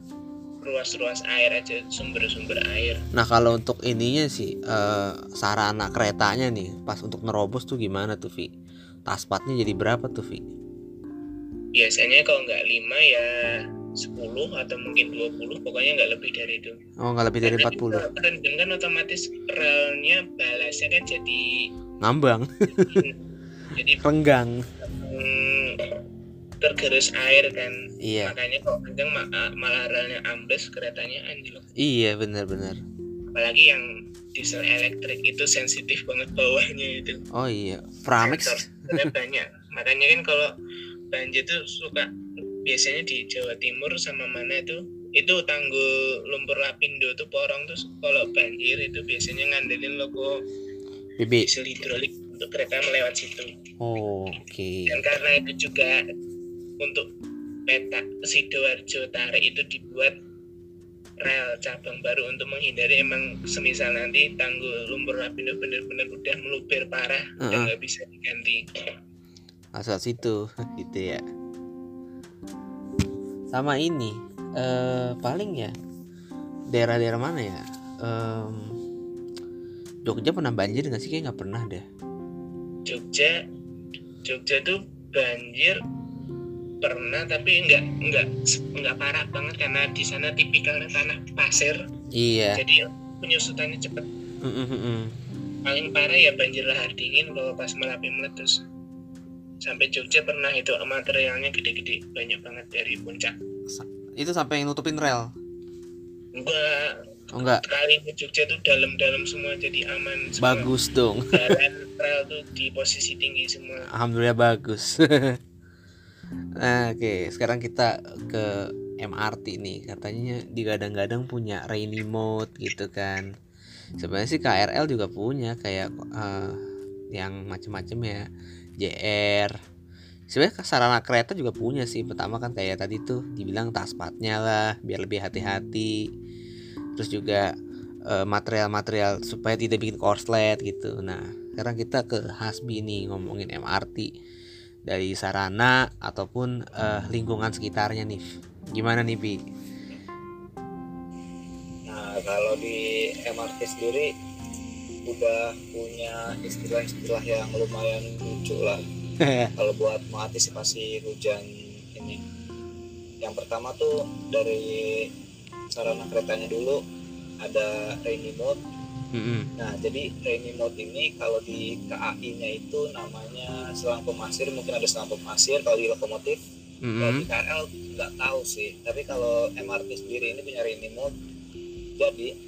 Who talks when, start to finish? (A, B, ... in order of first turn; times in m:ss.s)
0:00.6-0:03.0 A
0:03.2-0:08.5 B
0:09.1-0:10.4 B
0:11.8-0:13.3 A
0:14.0-0:16.8 A
0:17.0-0:18.1 B
0:17.4-0:21.7 A
0:22.0-0:23.0 B
0:22.8-0:23.2 A
0:23.7-0:24.0 A
0:24.0-0:24.7 B
0:24.8-0:25.9 A
0:26.6-0:31.7 A
0:28.0-0:28.4 B
0:31.8-0:32.8 B
0:33.3-0:37.2 A
0:37.3-0:39.0 B
0:38.2-0:40.5 A
0:41.1-0:42.1 A
0:42.6-0:50.3 A
0:51.2-0:51.5 B
0:51.4-0:53.5 A
0:53.8-0:55.0 B
0:54.9-0:56.0 A
0:56.8-0:57.1 A
0:57.7-1:00.1 A
1:01.2-1:08.6 A
1:07.4-1:07.7 B
1:09.8-1:11.2 B
1:13.5-1:15.7 B
1:16.7-1:18.8 B
1:20.0-1:21.8 B
1:22.9-1:23.4 A
1:24.2-1:25.8 A
1:26.8-1:31.8 A
1:32.1-1:32.6 B
1:32.6-1:34.1 A
1:34.4-1:35.1 B
1:35.7-1:38.6 A
1:39.6-1:43.3 A
1:43.7-1:45.3 B
1:46.4-1:50.7 A
1:47.3-1:47.6 B
1:50.4-1:51.6 B
1:51.3-1:53.9 A
1:53.9-1:55.4 B
1:56.6-2:03.3 B
2:04.0-2:06.6 B
2:07.1-2:08.3 B
2:08.8-2:09.5 B
2:10.3-2:16.0 B
2:17.0-2:17.5 B
2:18.1-2:24.1 B
2:24.9-2:29.4 B
2:31.9-2:34.1 C
2:35.1-2:38.8 C
2:39.2-2:39.5 B
2:39.6-2:42.2 C
2:43.2-2:45.1 C
2:45.7-2:46.8 C
2:47.4-2:48.6 C
2:49.1-2:49.5 B
2:49.6-2:56.4 C
2:56.8-2:57.3 B
2:57.0-3:01.1 C
3:02.0-3:02.3 C